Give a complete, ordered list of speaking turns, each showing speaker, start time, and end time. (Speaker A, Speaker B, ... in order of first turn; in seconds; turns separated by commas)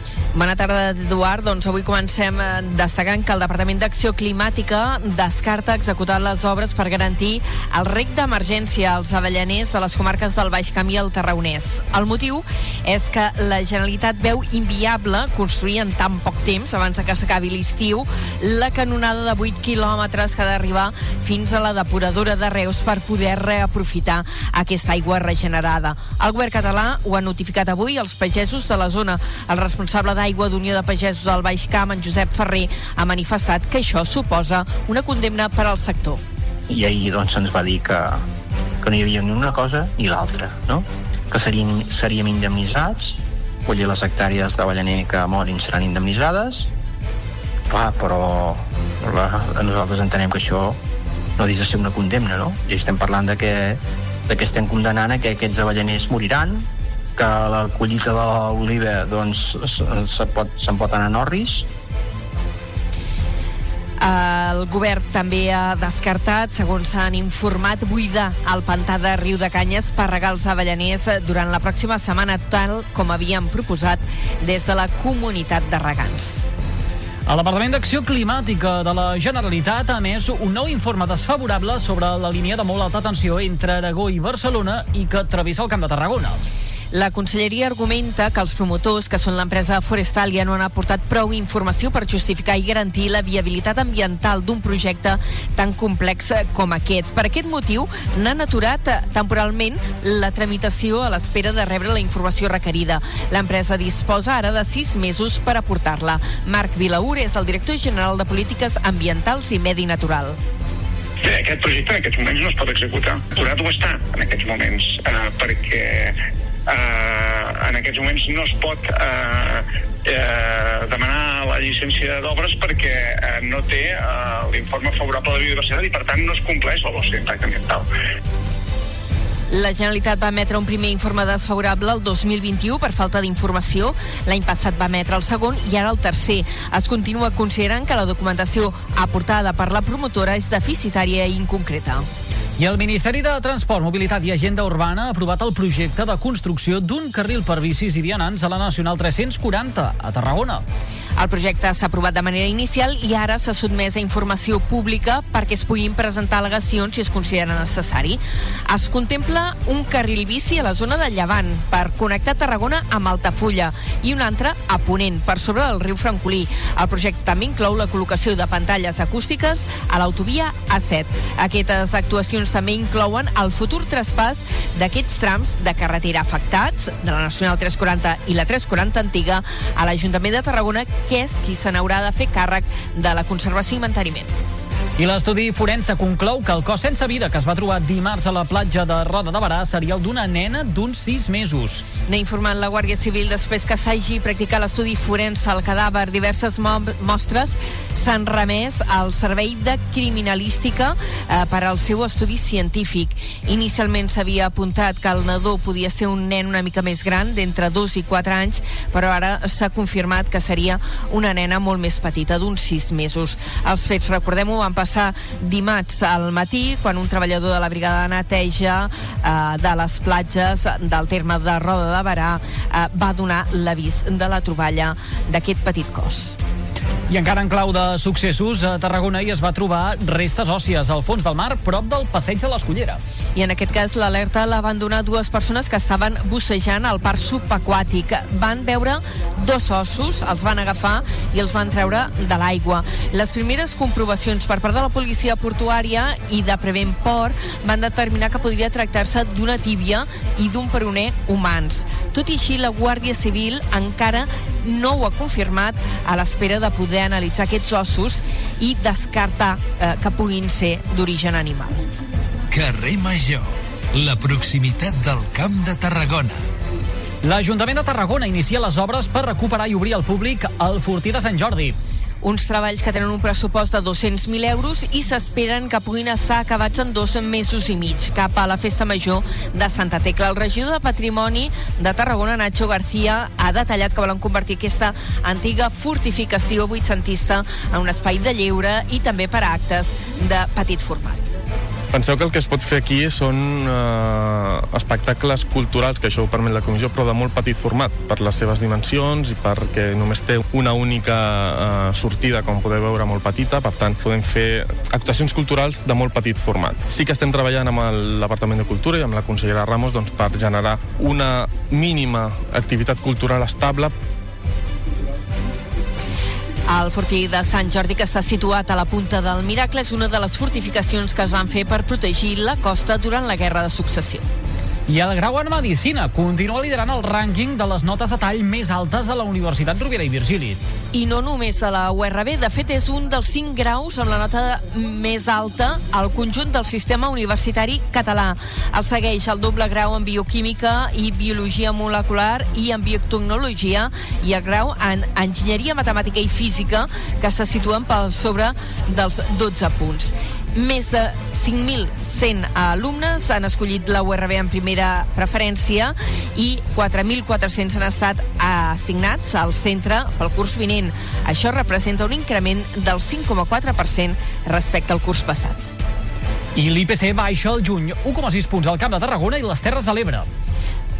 Speaker A: 0.3-36.2, Speaker B: 36.7-38.2, Speaker B: 38.8-46.7, Speaker B: 47.7-50.8, Speaker B: 51.4-61.7, Speaker A: 64.0-76.4, Speaker C: 77.2-86.4, Speaker A: 86.9-110.4, Speaker D: 111.2-127.9, Speaker A: 129.5-142.1, Speaker C: 142.6-150.6, Speaker A: 151.2-184.3, Speaker C: 185.0-191.8, Speaker A: 192.1-226.3, Speaker C: 227.1-233.0, Speaker A: 233.3-261.8, Speaker E: 262.5-266.4, Speaker C: 267.2-271.8, Speaker A: 272.2-291.2, Speaker F: 291.9-313.9, Speaker A: 316.7-324.2, Speaker C: 324.9-330.6, Speaker A: 330.9-365.6, Speaker C: 366.6-370.3